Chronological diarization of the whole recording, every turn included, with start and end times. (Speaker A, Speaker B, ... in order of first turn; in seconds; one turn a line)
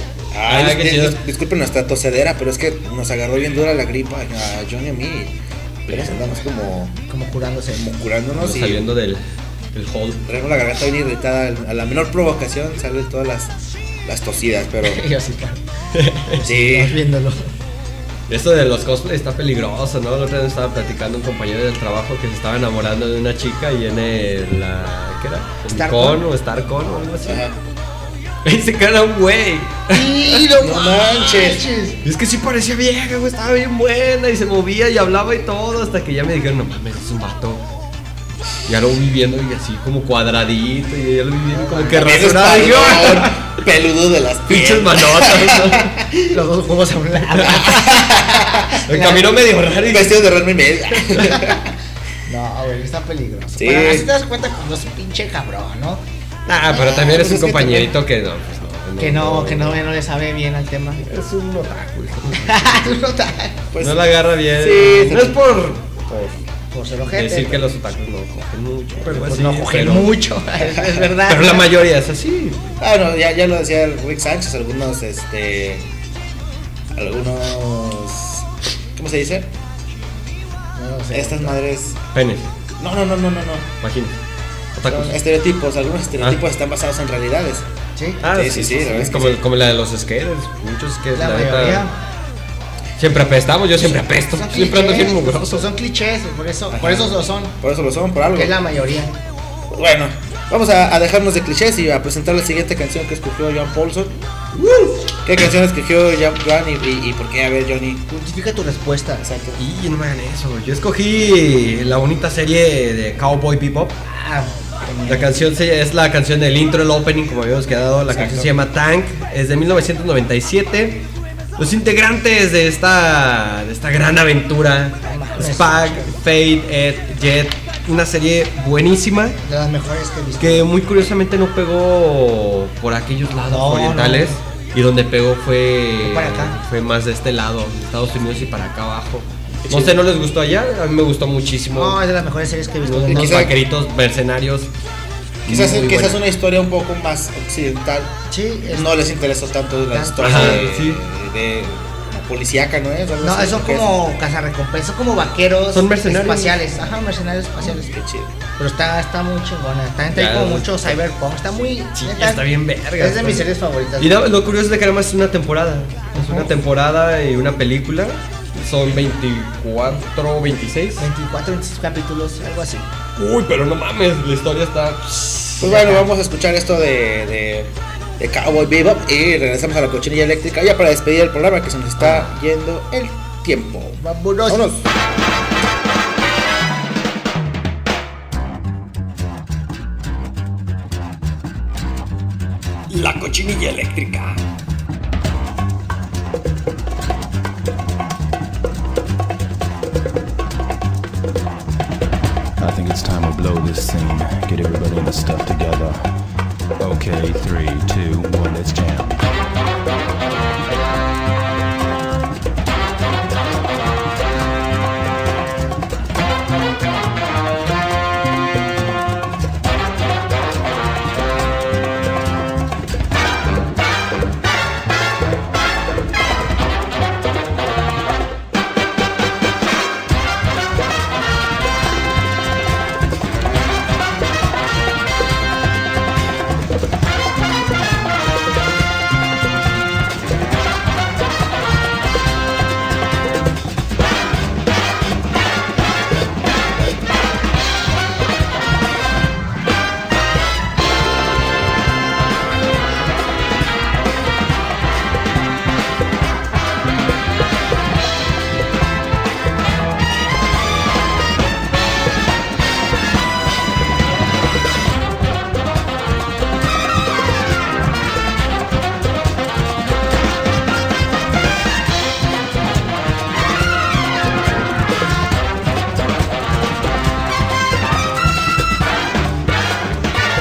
Speaker A: 0.3-7.0
Speaker B: 0.5-1.1
Speaker C: 7.1-7.9
Speaker A: 7.8-8.8
Speaker B: 8.4-10.2
Speaker A: 10.2-15.0
Speaker C: 14.8-15.6
Speaker B: 15.9-16.4
Speaker C: 16.3-17.5
Speaker A: 16.4-17.0
Speaker B: 18.3-27.5
Speaker C: 25.7-26.2
Speaker A: 27.2-27.6
Speaker B: 28.4-30.4
Speaker C: 29.9-32.0
Speaker A: 30.6-31.7
Speaker B: 32.0-37.6
Speaker B: 38.7-43.5
Speaker C: 41.5-42.2
Speaker A: 41.9-46.3
Speaker B: 44.5-46.0
Speaker C: 46.3-49.4
Speaker B: 47.3-47.8
Speaker A: 47.7-48.7
Speaker B: 48.9-50.3
Speaker A: 49.8-51.7
Speaker C: 51.2-51.6
Speaker C: 52.3-56.0
Speaker A: 53.6-54.1
Speaker B: 56.5-59.8
Speaker A: 56.7-57.9
Speaker C: 59.0-61.1
Speaker B: 61.0-62.7
Speaker C: 62.4-63.6
Speaker A: 63.7-65.5
Speaker B: 63.8-66.4
Speaker C: 66.7-67.7
Speaker B: 67.1-70.2
Speaker C: 69.0-71.7
Speaker A: 70.6-71.1
Speaker B: 71.2-72.8
Speaker A: 72.8-75.9
Speaker A: 77.0-79.5
Speaker C: 80.8-81.6
Speaker A: 81.1-82.0
Speaker B: 82.1-82.5
Speaker A: 82.8-83.7
Speaker B: 83.8-84.2
Speaker B: 84.8-85.2
Speaker A: 84.9-87.7
Speaker C: 88.0-88.2
Speaker B: 88.2-91.9
Speaker A: 88.3-89.4
Speaker C: 91.2-92.0
Speaker B: 93.0-95.7
Speaker C: 93.8-97.5
Speaker A: 96.7-98.6
Speaker C: 98.3-99.2
Speaker A: 99.7-104.2
Speaker B: 104.5-105.1
Speaker A: 105.2-108.1
Speaker C: 108.1-109.2
Speaker A: 109.2-109.6
Speaker B: 109.6-114.0
Speaker C: 114.0-115.4
Speaker B: 115.1-121.0
Speaker A: 118.1-118.5
Speaker B: 121.6-129.4
Speaker C: 125.0-126.2
Speaker C: 129.4-130.7
Speaker B: 130.4-142.0
Speaker C: 133.5-134.4
Speaker C: 136.0-136.6
Speaker A: 139.7-140.0
Speaker C: 141.7-143.5
Speaker B: 142.8-144.7
Speaker A: 143.1-143.5
Speaker B: 145.5-146.2
Speaker A: 145.5-148.2
Speaker C: 148.3-148.9
Speaker A: 148.7-153.9
Speaker C: 149.9-150.7
Speaker B: 150.2-151.0
Speaker C: 153.2-158.0
Speaker B: 155.7-156.6
Speaker A: 157.7-158.4
Speaker C: 158.6-164.1
Speaker B: 160.1-160.9
Speaker B: 162.0-163.5
Speaker B: 164.0-171.1
Speaker C: 166.1-166.5
Speaker C: 171.0-172.9
Speaker B: 173.2-175.7
Speaker A: 175.6-184.9
Speaker C: 175.6-176.1
Speaker C: 184.0-184.7
Speaker B: 192.9-194.3
Speaker D: 202.6-206.1
Speaker D: 206.8-209.3